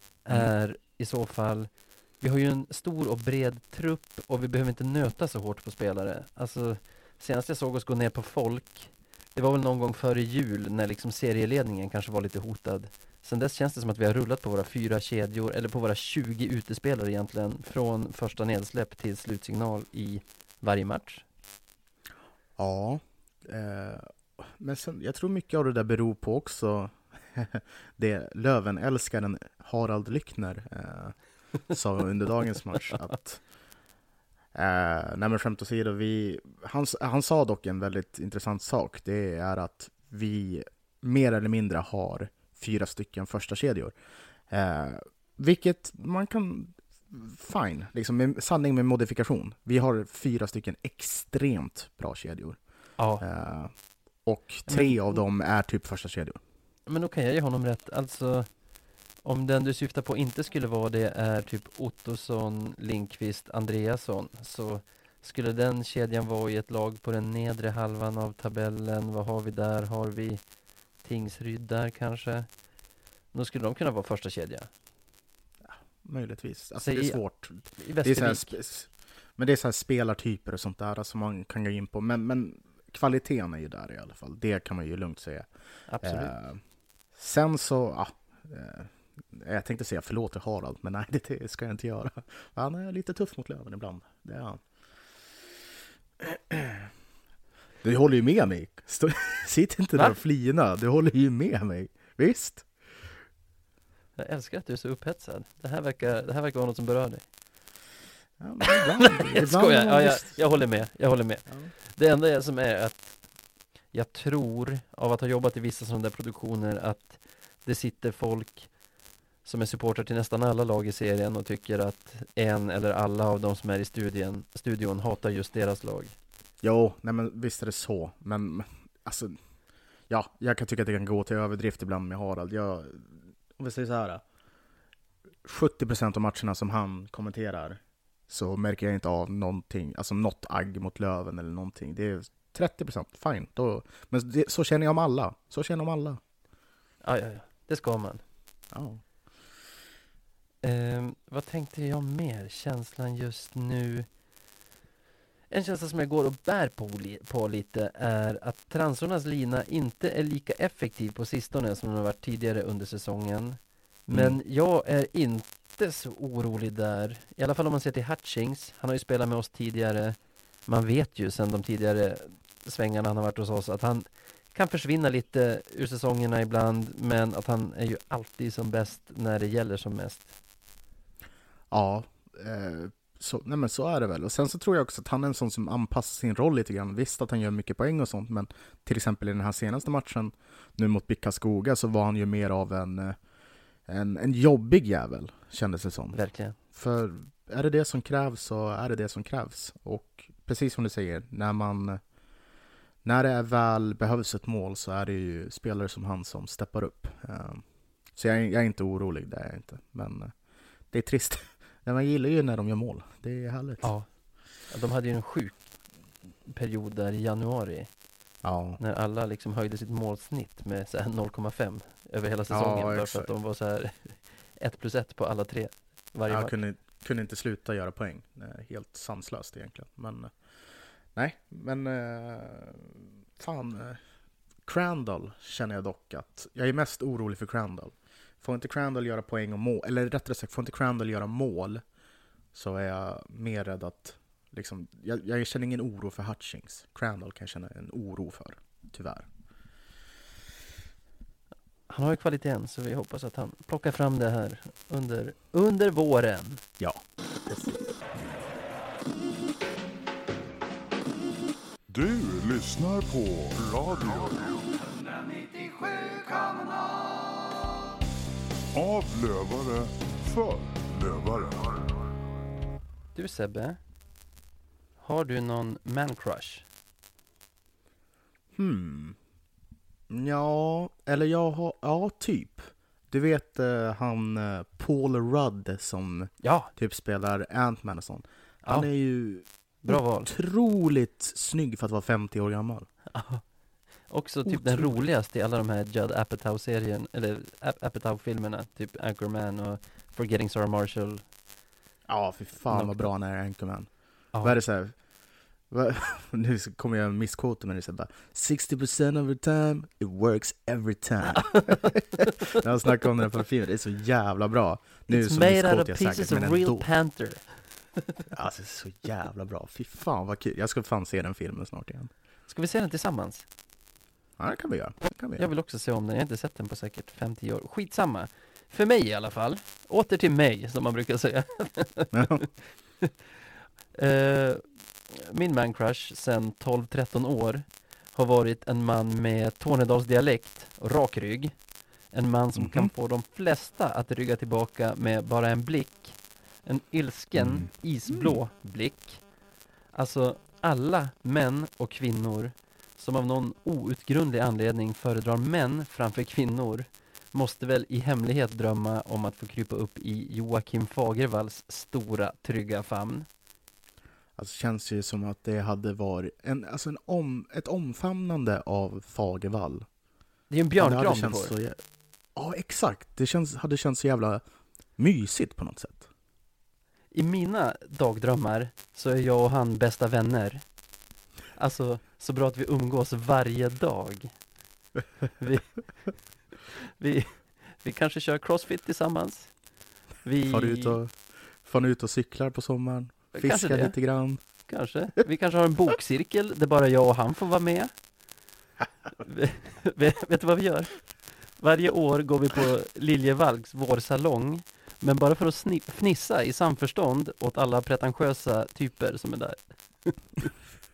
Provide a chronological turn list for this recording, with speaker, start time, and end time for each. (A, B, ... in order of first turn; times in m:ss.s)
0:00.2-0:21.2 A
0:22.6-0:31.2 B
0:31.7-0:33.4 B
0:34.5-0:44.0 B
0:44.5-0:52.6 B
0:53.0-0:53.2 A
0:53.2-0:56.4 B
0:54.7-0:55.2 A
0:56.9-0:58.5 A
0:59.2-1:10.4 A
1:11.0-1:12.5 A
1:13.3-1:14.7 A
1:15.6-1:25.5 B
1:16.8-1:17.2 A
1:17.8-1:18.5 A
1:25.9-1:26.3 A
1:26.0-1:26.6 B
1:27.1-1:34.6 B
1:36.2-1:36.9 B
1:37.8-1:42.8 B
1:44.2-1:47.3 A
1:48.4-1:50.5 B
1:49.0-1:53.2 A
1:53.9-1:58.7 A
1:59.4-2:06.1 A
2:06.6-2:09.4 B
2:10.1-2:14.2 B
2:15.4-2:26.2 B
2:27.0-2:28.2 A
2:28.7-2:29.0 B
2:30.6-2:34.1 A
2:35.5-3:00.3 A
2:44.1-2:44.4 B
3:01.7-3:13.2 B
3:13.9-3:22.0 B
3:16.1-3:16.6 A
3:23.0-3:30.3 B
3:30.9-3:33.9 B
3:33.8-3:34.1 A
3:34.6-3:35.7 A
3:36.5-3:37.9 A
3:38.4-3:38.8 B
3:38.8-3:46.6 A
3:42.5-3:43.3 B
3:46.3-3:50.4 B
3:51.1-3:54.0 B
3:54.6-4:01.8 B
4:02.5-4:09.3 B
4:11.9-4:16.6 A
4:16.8-4:17.7 B
4:21.9-4:24.8 C
4:25.6-4:26.6 C
4:28.7-4:31.9 C
4:33.1-4:33.8 A
4:35.0-4:36.6 A
4:38.6-4:39.2 B
4:40.1-4:52.9 B
4:46.4-4:46.7 A
4:49.8-4:50.3 A
4:53.1-4:53.4 A
4:54.1-5:01.2 A
4:54.4-4:55.0 B
5:02.1-5:03.9 B
5:02.7-5:03.1 A
5:04.4-5:05.0 B
5:05.7-5:16.9 B
5:11.3-5:11.9 A
5:15.1-5:17.5 A
5:18.3-5:22.1 B
5:22.5-5:23.4 A
5:24.4-5:25.4 B
5:25.4-5:33.1 A
5:32.1-5:32.4 B
5:34.0-5:41.6 A
5:42.1-5:49.2 A
5:42.6-5:42.9 B
5:47.4-5:48.3 B
5:49.9-6:03.3 A
6:04.4-6:09.9 B
6:10.5-6:11.5 A
6:10.8-6:11.8 B
6:12.4-6:14.4 B
6:15.0-6:16.1 B
6:17.1-6:20.6 A
6:21.6-6:24.3 A
6:25.4-6:25.7 A
6:27.0-6:29.5 A
6:30.2-6:31.0 A
6:30.4-6:34.4 B
6:33.3-6:34.0 A
6:34.6-6:37.9 A
6:39.2-6:41.0 A
6:41.6-6:50.5 A